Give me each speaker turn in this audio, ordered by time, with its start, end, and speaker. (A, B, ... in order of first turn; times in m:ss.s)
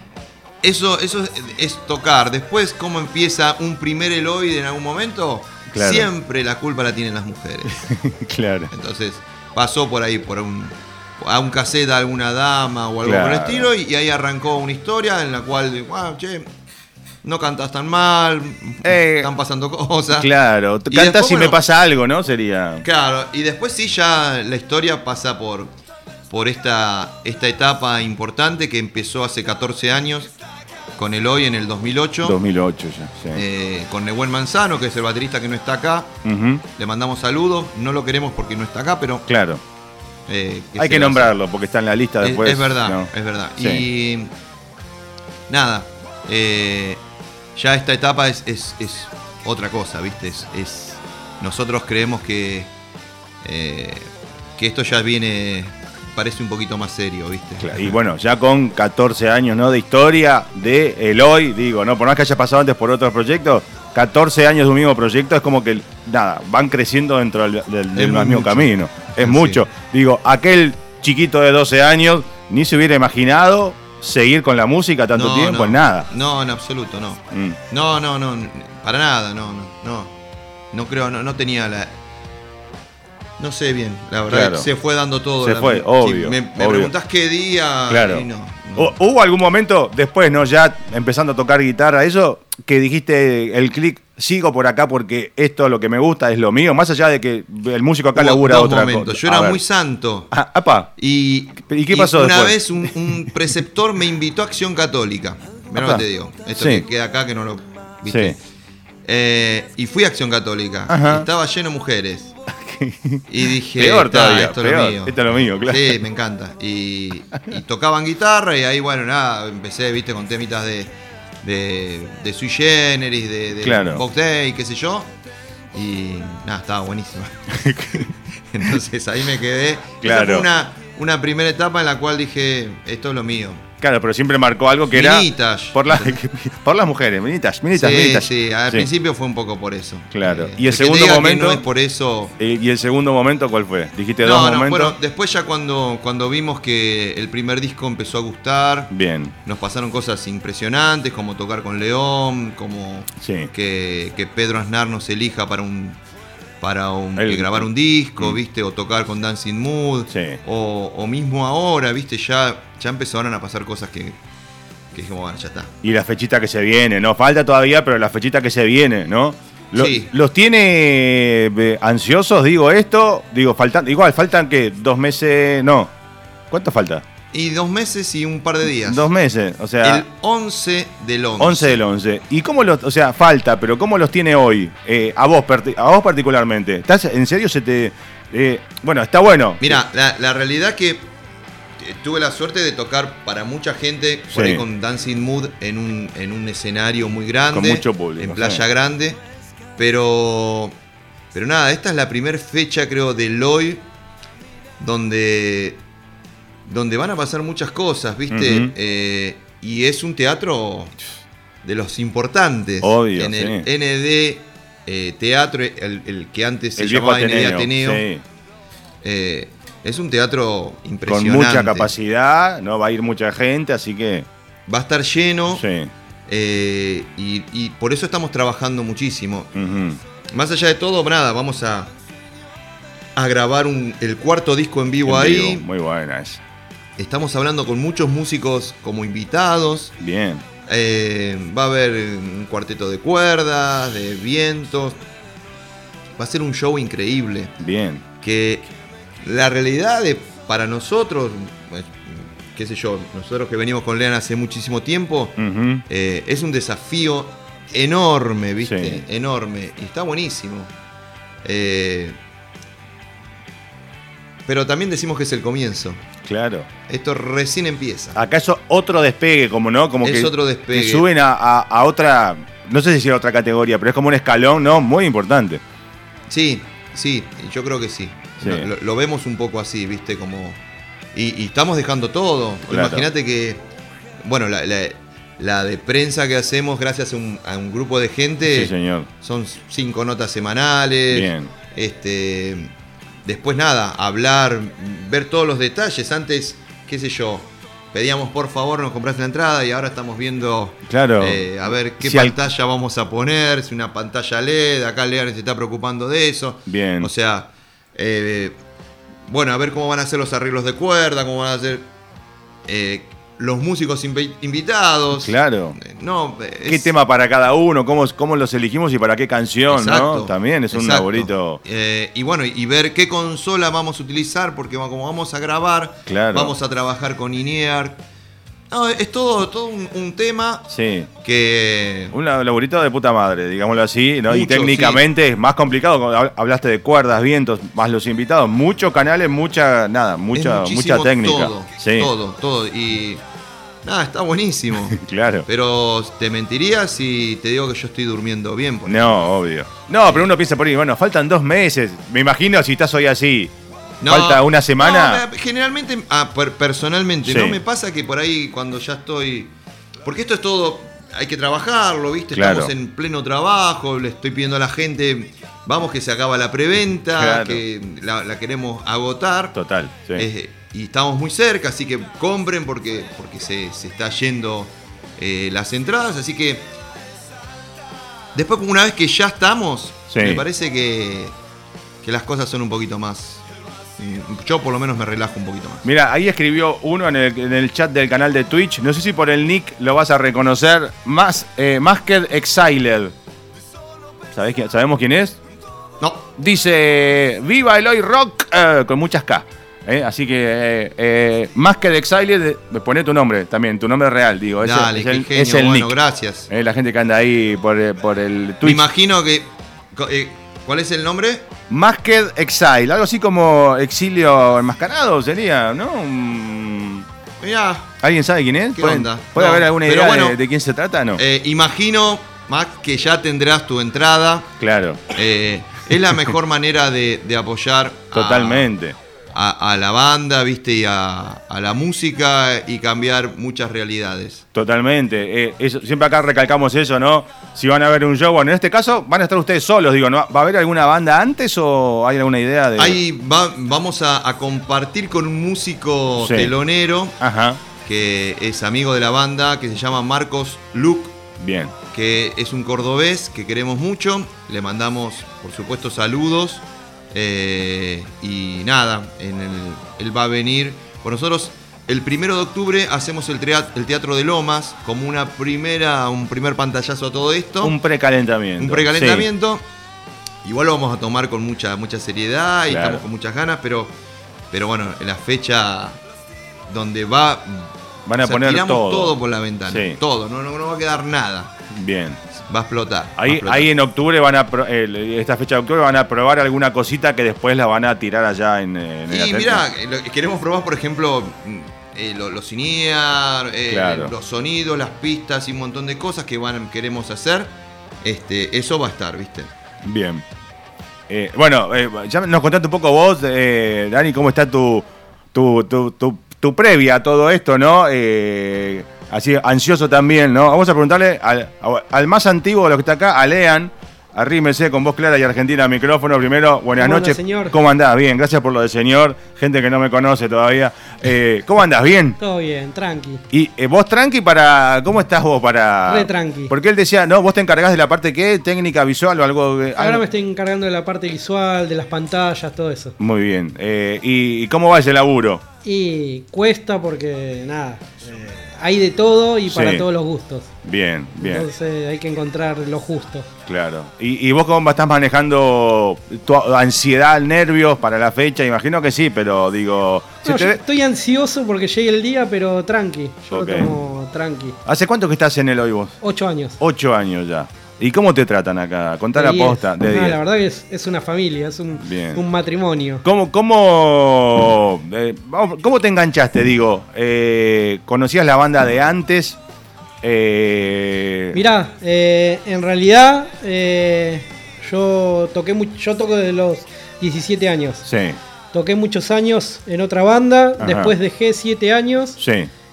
0:00.6-0:07.7 A
0:05.7-0:06.1 B
0:07.7-0:08.7 B
0:08.7-0:16.5 A
0:13.0-0:13.7 B
0:17.2-0:20.3 A
0:18.8-0:19.3 B
0:20.1-0:22.8 B
0:20.9-0:21.6 A
0:22.8-0:25.7 A
0:26.3-0:30.3 A
0:31.0-0:32.4 A
0:32.2-0:33.4 B
0:33.3-0:36.2 A
0:36.2-0:36.6 B
0:36.7-0:39.2 A
0:39.3-0:39.6 B
0:40.3-0:41.3 A
0:40.8-0:43.8 B
0:42.2-0:44.3 A
0:45.5-0:47.0 A
0:47.5-0:52.7 A
0:53.4-0:58.0 A
0:57.6-1:16.1 B
1:07.9-1:09.6 A
1:15.1-1:20.1 A
1:17.3-1:17.6 B
1:20.7-1:21.9 A
1:23.4-1:28.9 A
1:24.3-1:24.7 B
1:25.4-1:26.9 B
1:27.9-1:39.6 B
1:38.1-1:40.3 A
1:40.3-1:40.9 B
1:41.0-1:48.4 A
1:41.6-1:43.5 B
1:45.7-1:46.9 B
1:48.0-1:48.4 B
1:49.0-1:52.3 A
1:50.9-1:51.3 B
1:52.5-1:56.0 B
1:53.3-2:05.1 A
2:03.6-2:04.0 B
2:05.7-2:13.6 A
2:07.6-2:08.0 B
2:10.0-2:10.5 B
2:13.8-2:18.9 B
2:14.9-2:16.2 A
2:17.7-2:22.3 A
2:20.1-2:21.6 B
2:22.4-2:25.0 B
2:24.2-2:28.9 A
2:28.9-2:29.3 B
2:29.4-2:36.0 A
2:33.2-2:33.5 B
2:36.6-2:44.2 A
2:37.1-2:38.4 B
2:40.1-2:40.4 B
2:44.9-2:45.7 A
2:45.8-2:55.9 B
2:49.7-2:50.1 A
2:56.5-2:57.0 B
2:57.3-2:59.0 A
2:58.8-3:00.0 B
2:59.8-3:01.8 A
3:01.4-3:09.8 B
3:09.6-3:11.1 A
3:11.8-3:19.2 A
3:14.3-3:14.6 B
3:17.5-3:18.6 B
3:19.8-3:20.7 A
3:21.3-3:23.8 A
3:24.8-3:25.8 A
3:26.6-3:30.9 A
3:28.3-3:28.7 B
3:31.6-3:38.0 A
3:32.8-3:33.7 B
3:36.8-3:38.2 B
3:39.0-3:41.9 A
3:41.0-3:44.3 B
3:44.7-3:45.6 A
3:45.5-3:45.9 B
3:46.3-3:49.5 A
3:49.5-3:50.0 B
3:50.3-3:51.9 A
3:53.2-3:55.6 A
3:55.0-3:56.4 B
3:57.0-3:59.9 A
4:00.0-4:00.4 B
4:00.7-4:05.0 A
4:06.2-4:07.5 A
4:07.6-4:08.0 B
4:08.2-4:08.7 A
4:09.2-4:20.7 A
4:15.4-4:15.8 B
4:18.6-4:19.0 B
4:21.4-4:22.2 A
4:24.4-4:26.0 A
4:26.2-4:26.7 B
4:26.9-4:28.2 A
4:28.1-4:35.6 B
4:30.0-4:31.0 A
4:36.3-4:40.6 A
4:38.4-4:38.7 B
4:41.1-4:43.6 A
4:42.7-4:43.1 B
4:44.2-4:52.7 A
4:48.4-4:49.1 B
4:51.1-4:51.5 B
4:53.2-5:08.6 A
5:00.9-5:02.4 B
5:06.7-5:07.1 B
5:09.3-5:11.9 A
5:12.7-5:16.9 A
5:15.1-5:15.8 B
5:16.6-5:21.6 B
5:19.7-5:28.0 A
5:26.1-5:26.5 B
5:28.7-5:30.7 A
5:30.7-5:31.1 B
5:31.2-5:32.1 A
5:32.1-5:42.1 B
5:34.3-5:35.0 A
5:40.3-5:43.2 A
5:43.8-5:49.2 A
5:44.9-5:45.5 B
5:48.8-5:53.5 B
5:50.0-5:50.3 A
5:54.0-6:09.6 A
5:54.0-5:55.2 B
5:57.2-5:57.6 B
6:02.3-6:02.7 B
6:07.1-6:07.6 B
6:09.5-6:10.3 B
6:10.1-6:16.7 A
6:18.3-6:21.3 A
6:20.1-6:20.4 B
6:22.0-6:23.4 A
6:24.0-6:25.8 A
6:25.8-6:33.1 B
6:34.3-6:35.4 B
6:36.0-6:36.2 A
6:36.4-6:45.9 B
6:44.6-6:46.5 A
6:46.5-6:48.9 B
6:48.6-6:51.5 A
6:51.7-6:57.1 B
6:57.4-6:57.9 A
6:58.0-7:01.2 B
6:58.7-7:00.4 A
7:01.2-7:04.5 A
7:04.6-7:05.0 B
7:05.1-7:08.7 A
7:08.1-7:09.0 B
7:09.3-7:14.4 A
7:14.5-7:23.0 B
7:22.8-7:27.2 A
7:26.2-7:26.5 B
7:27.2-7:27.6 B
7:27.8-7:31.2 A
7:31.4-7:31.7 B
7:31.9-7:47.8 A
7:47.6-7:49.3 B
7:48.6-7:49.6 A
7:50.4-7:53.9 A
7:52.7-7:53.0 B
7:54.5-7:56.0 A
7:56.7-8:01.5 A
7:58.0-7:59.2 B
7:59.7-8:00.0 B
8:01.7-8:02.2 B
8:02.4-8:03.7 A
8:03.2-8:09.7 B
8:09.1-8:19.5 A
8:13.7-8:14.1 B
8:19.8-8:20.2 B
8:21.1-8:42.2 B
8:36.8-8:37.6 C
8:42.2-8:43.2 C
8:43.3-8:50.0 B
8:45.8-8:46.5 C
8:49.8-8:53.0 C
8:53.0-8:55.4 B
8:55.6-9:00.5 C
8:59.5-8:59.8 B
9:00.6-9:01.5 B
9:01.2-9:03.3 C
9:03.5-9:10.6 B
9:10.2-9:14.6 C
9:13.3-9:13.7 B
9:14.6-9:16.0 B
9:16.0-9:16.6 C
9:16.6-9:20.2 B
9:19.1-9:23.0 C
9:21.8-9:22.2 B
9:23.0-9:29.4 B
9:30.0-9:31.4 B
9:31.3-9:37.9 C
9:37.8-9:38.2 B
9:38.5-9:42.2 C
9:40.6-9:40.9 B
9:42.2-9:42.5 B